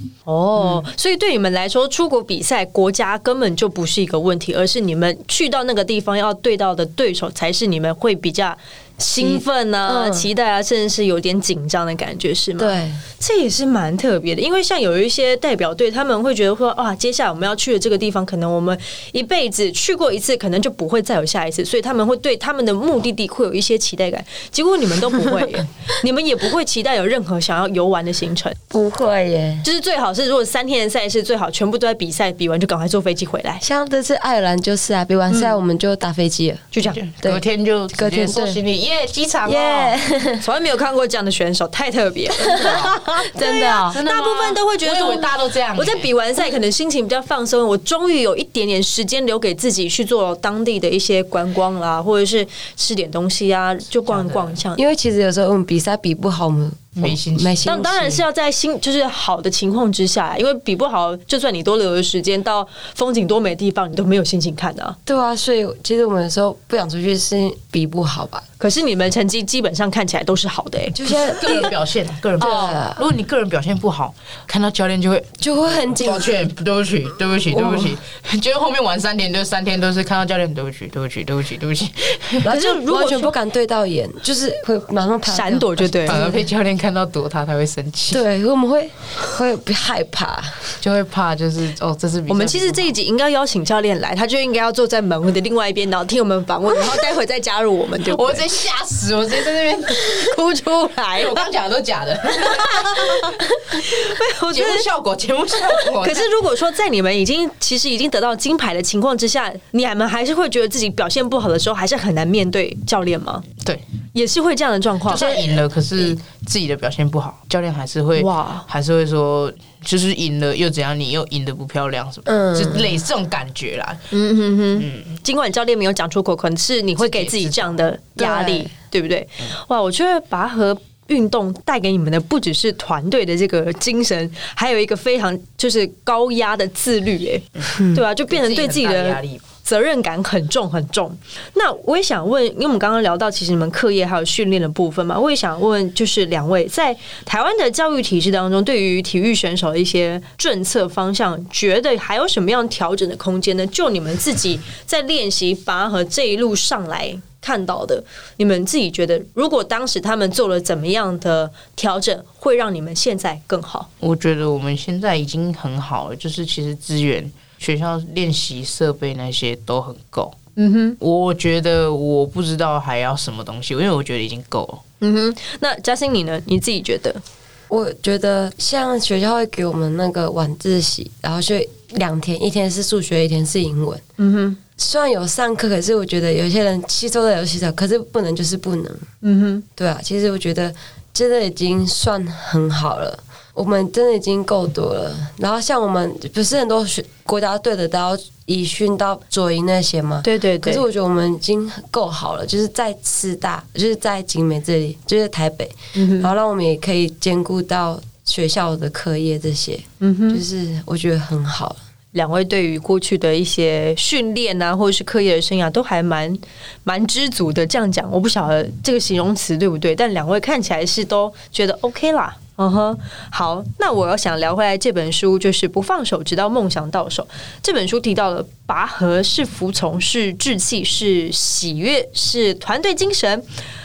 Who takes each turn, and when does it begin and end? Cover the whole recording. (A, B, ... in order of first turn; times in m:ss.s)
0:00.3-0:28.6 A
0:09.2-0:10.3 B
0:12.6-0:13.0 B
0:28.7-0:29.7 B
0:29.6-0:33.6 A
0:33.6-0:37.4 B
0:36.7-0:37.0 A
0:36.8-0:40.0 C
0:38.0-0:38.6 B
0:39.4-0:40.4 B
0:40.4-0:54.8 A
0:42.4-0:44.0 B
0:42.6-0:42.9 C
0:43.9-0:46.1 C
0:54.1-0:54.6 C
0:54.8-0:58.2 B
0:57.0-0:58.1 C
0:57.7-1:05.0 A
1:05.1-1:08.5 B
1:08.6-1:11.7 A
1:10.9-1:11.7 B
1:11.1-1:22.6 C
1:12.4-1:13.0 B
1:12.4-1:12.8 A
1:15.4-1:16.4 B
1:22.4-1:26.4 B
1:22.5-1:23.3 A
1:25.3-1:26.2 A
1:26.1-1:28.2 C
1:28.1-1:30.7 B
1:30.8-1:32.9 C
1:32.3-1:38.5 A
1:38.1-1:40.3 C
1:40.0-1:41.4 A
1:41.2-1:43.3 C
1:42.4-1:44.9 A
1:44.5-1:46.3 C
1:45.6-1:53.5 A
1:54.2-1:55.4 A
1:55.1-2:04.1 C
1:58.2-1:58.7 A
2:02.3-2:03.0 B
2:04.1-2:43.9 A
2:04.8-2:05.2 C
2:07.0-2:07.8 C
2:08.2-2:08.7 B
2:18.3-2:19.4 C
2:44.0-2:50.4 C
2:50.6-2:51.0 A
2:51.0-2:54.8 C
2:55.0-2:57.2 A
2:57.7-3:04.0 B
3:04.2-3:04.6 A
3:04.8-3:09.1 B
3:09.2-3:09.6 A
3:09.8-3:31.8 B
3:20.2-3:20.8 A
3:25.9-3:26.3 A
3:30.0-3:30.4 A
3:32.1-3:53.4 A